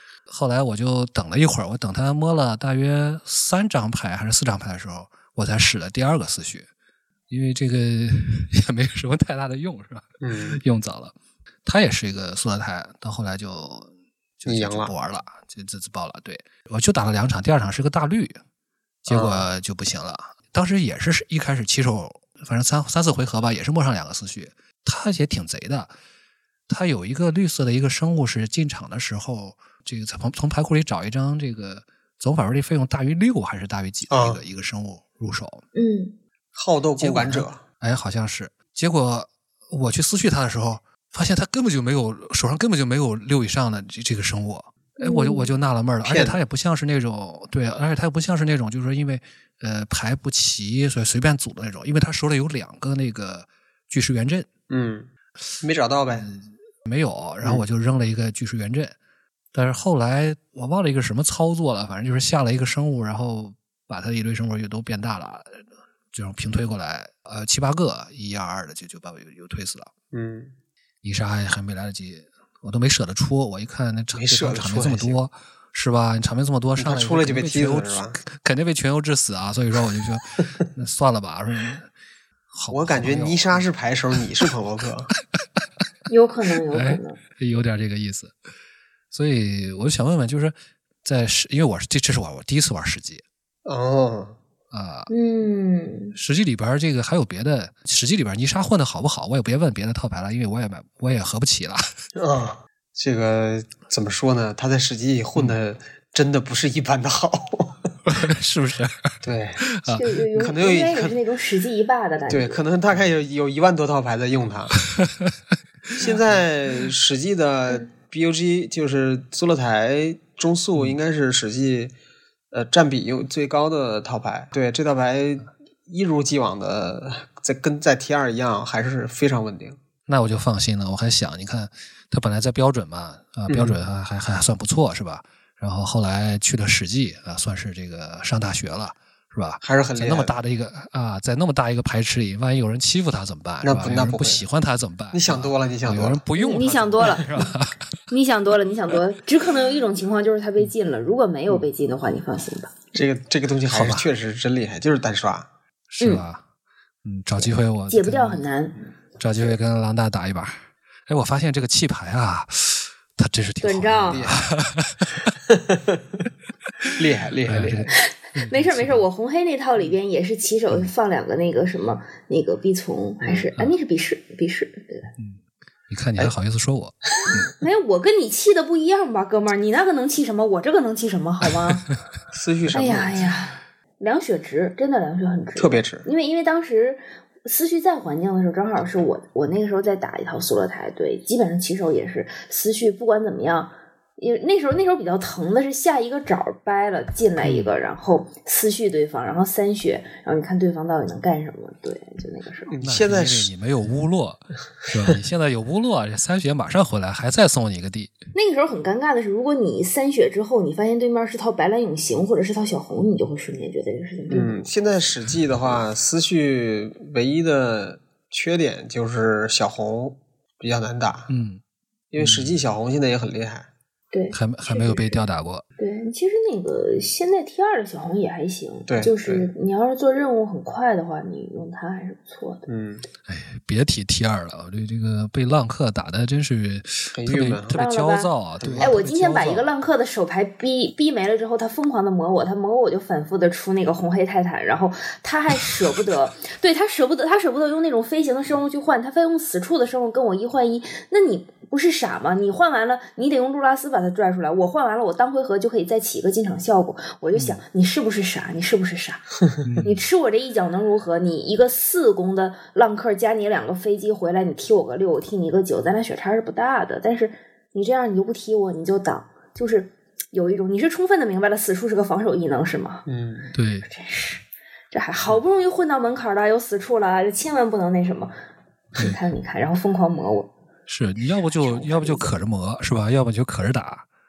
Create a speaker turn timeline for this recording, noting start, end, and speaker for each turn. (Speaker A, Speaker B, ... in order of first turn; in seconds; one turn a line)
Speaker A: 0.3-6.7
Speaker A: 7.3-11.1
Speaker B: 10.2-10.6
Speaker A: 11.7-18.3
Speaker B: 14.4-14.9
Speaker A: 19.0-25.9
Speaker B: 19.1-19.5
Speaker A: 26.7-35.6
Speaker B: 34.1-34.4
Speaker C: 35.8-36.1
Speaker B: 36.5-37.6
Speaker A: 37.0-54.5
Speaker C: 45.0-45.5
Speaker B: 46.0-46.4
Speaker B: 54.7-55.1
Speaker B: 55.6-56.3
Speaker A: 56.2-59.0
Speaker B: 57.4-57.7
Speaker A: 59.5-65.5
Speaker A: 66.1-69.9
Speaker B: 70.1-70.5
Speaker A: 71.0-81.9
Speaker B: 74.1-75.2
Speaker B: 76.8-78.2
Speaker A: 82.5-83.7
Speaker B: 82.7-85.1
Speaker C: 86.1-87.2
Speaker A: 86.7-88.3
Speaker A: 89.1-93.2
Speaker B: 93.7-94.4
Speaker A: 94.7-95.1
Speaker C: 95.1-96.1
Speaker A: 96.2-101.8
Speaker B: 102.2-107.8
Speaker A: 108.1-109.1
Speaker B: 109.2-109.7
Speaker A: 109.7-110.1
Speaker C: 109.9-112.6
Speaker B: 110.3-111.2
Speaker B: 112.3-114.8
Speaker A: 115.0-115.3
Speaker B: 116.0-121.9
Speaker B: 122.5-129.8
Speaker A: 130.1-147.8
Speaker B: 133.5-133.8
Speaker B: 139.6-140.4
Speaker B: 143.6-144.4
Speaker B: 145.1-146.2
Speaker C: 146.4-147.5
Speaker C: 148.1-152.7
Speaker B: 152.9-155.5
Speaker A: 153.7-154.1
Speaker A: 155.9-156.4
Speaker C: 156.0-156.2
Speaker A: 157.0-158.5
Speaker C: 157.9-158.8
Speaker A: 159.2-160.6
Speaker A: 161.1-165.3
Speaker C: 163.6-164.3
Speaker B: 164.1-164.5
Speaker B: 165.5-166.0
Speaker B: 167.0-167.9
Speaker A: 167.5-169.0
Speaker C: 167.9-175.1
Speaker B: 173.2-173.5
Speaker A: 175.2-177.5
Speaker C: 177.6-181.8
Speaker B: 182.3-183.3
Speaker C: 182.7-202.7
Speaker B: 185.6-186.1
Speaker A: 197.4-197.7
Speaker B: 202.7-203.5
Speaker A: 202.8-208.1
Speaker C: 208.3-214.7
Speaker B: 214.3-221.3
Speaker A: 221.3-221.6
Speaker B: 222.1-223.7
Speaker A: 222.2-222.6
Speaker C: 224.1-225.2
Speaker A: 224.3-225.7
Speaker C: 225.8-232.7
Speaker B: 228.9-229.5
Speaker B: 232.7-233.1
Speaker A: 233.3-239.7
Speaker B: 237.1-237.8
Speaker C: 237.7-259.3
Speaker B: 238.6-239.0
Speaker B: 257.3-257.6
Speaker A: 259.6-260.0
Speaker C: 259.8-273.0
Speaker B: 273.1-273.6
Speaker A: 273.6-273.9
Speaker C: 273.9-278.3
Speaker C: 278.9-280.5
Speaker A: 280.9-284.1
Speaker C: 281.3-282.3